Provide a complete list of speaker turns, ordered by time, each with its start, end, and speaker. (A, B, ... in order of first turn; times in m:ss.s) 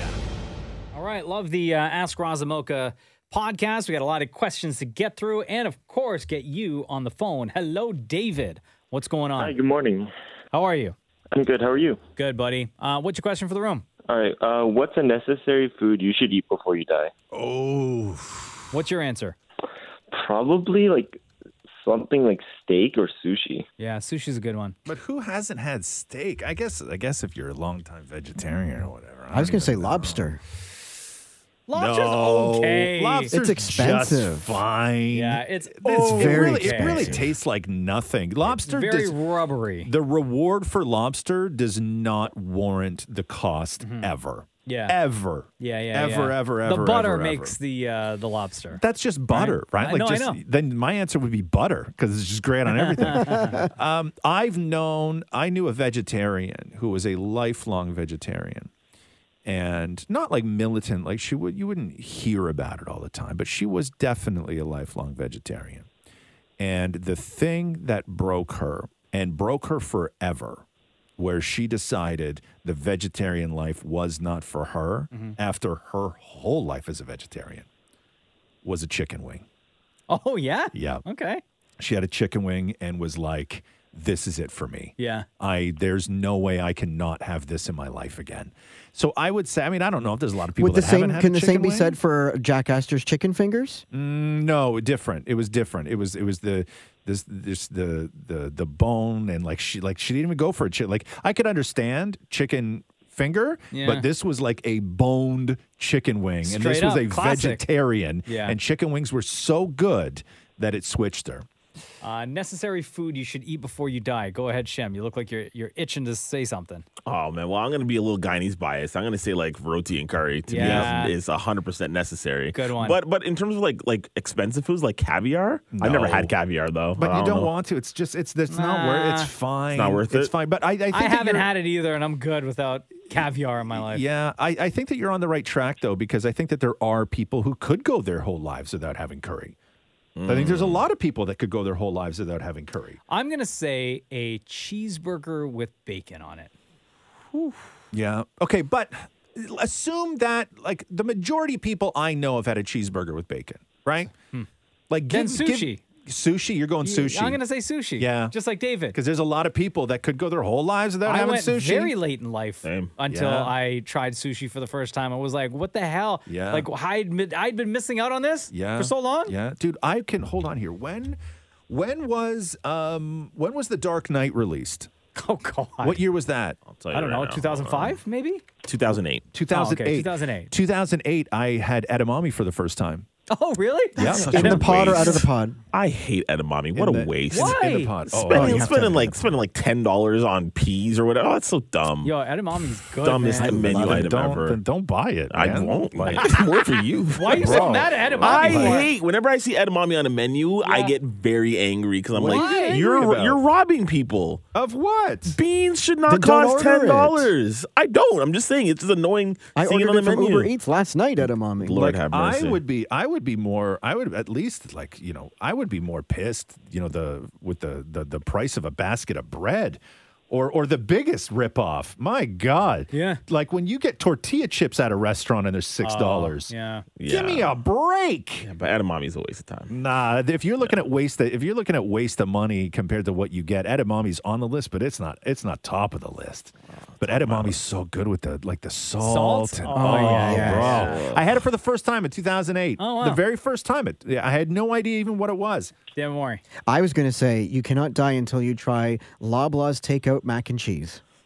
0:00.9-0:09.5 A
0:09.4-0:10.1 B
0:10.5-0:10.9 A
0:11.3-0:12.0 B
0:12.2-0:13.8 A
0:14.1-0:17.1 B
0:17.3-0:18.6 C
0:18.7-0:19.4 A
0:20.1-0:21.2 B
0:21.8-0:23.7 B
0:23.8-0:24.7 A
0:24.8-0:30.4 C
0:29.3-0:30.4 D
0:31.7-0:33.3 A
0:31.7-0:39.2 C
0:33.3-0:34.6 D
0:35.1-0:37.2 A
0:36.0-0:37.1 D
0:36.8-0:37.3 E
0:38.5-0:39.9 A
0:39.8-0:47.6 C
0:43.8-0:44.1 A
0:44.7-0:45.0 A
0:45.6-0:50.4 A
0:48.7-0:58.7 C
0:52.7-0:53.7 A
0:59.4-1:05.9 C
1:06.6-1:10.6 C
1:11.2-1:17.7 C
1:15.1-1:15.4 A
1:18.6-1:19.4 C
1:20.1-1:21.4 A
1:20.7-1:21.0 C
1:21.8-1:32.0 C
1:25.0-1:25.3 A
1:30.6-1:33.8 D
1:33.9-1:51.5 C
1:43.7-1:44.1 A
1:46.4-1:47.7 A
1:48.3-1:48.6 A
1:52.0-1:56.8 A
1:57.1-2:07.5 E
2:00.5-2:01.2 A
2:00.5-2:01.0 C
2:02.5-2:03.0 A
2:05.7-2:06.3 C
2:07.0-2:11.5 C
2:08.5-2:09.3 A
2:09.7-2:10.3 E
2:10.9-2:14.0 A
2:13.8-2:19.5 C
2:20.2-2:20.8 E
2:20.2-2:23.0 C
2:23.1-2:26.5 A
2:27.9-2:34.1 C
2:34.9-2:37.4 C
2:35.1-2:35.8 A
2:36.8-2:39.0 A
2:38.0-2:38.3 C
2:38.9-2:41.9 C
2:41.0-2:49.3 A
2:42.6-2:42.9 E
2:43.1-2:43.5 C
2:46.3-2:46.7 C
2:48.5-2:51.2 C
2:51.7-2:54.9 C
2:55.1-2:56.0 A
2:55.8-2:56.6 C
2:56.7-2:58.0 E
2:56.9-2:58.4 A
2:58.6-2:59.3 E
2:59.3-3:03.1 C
2:59.5-3:00.5 A
3:03.3-3:04.6 A
3:04.0-3:05.1 C
3:04.0-3:12.1 E
3:04.0-3:05.6 D
3:06.8-3:09.2 C
3:07.3-3:08.1 A
3:08.2-3:09.1 D
3:12.0-3:14.0 A
3:13.0-3:14.6 E
3:13.4-3:16.3 C
3:15.3-3:24.5 E
3:17.1-3:18.9 A
3:17.3-3:18.9 C
3:20.6-3:21.0 A
3:22.2-3:23.4 C
3:22.2-3:22.8 A
3:24.5-3:25.4 C
3:25.3-3:30.5 E
3:26.1-3:27.3 D
3:29.6-3:32.0 D
3:31.6-3:32.6 E
3:31.8-3:46.5 C
3:42.9-3:43.2 A
3:45.8-3:46.8 A
3:47.0-3:47.5 E
3:47.0-3:48.5 C
3:48.4-3:49.7 E
3:49.7-4:05.8 C
3:57.0-3:57.6 E
3:59.0-4:01.0 A
3:59.7-4:00.9 D
4:00.4-4:01.4 E
4:02.8-4:03.2 A
4:05.9-4:06.4 A
4:06.7-4:11.0 D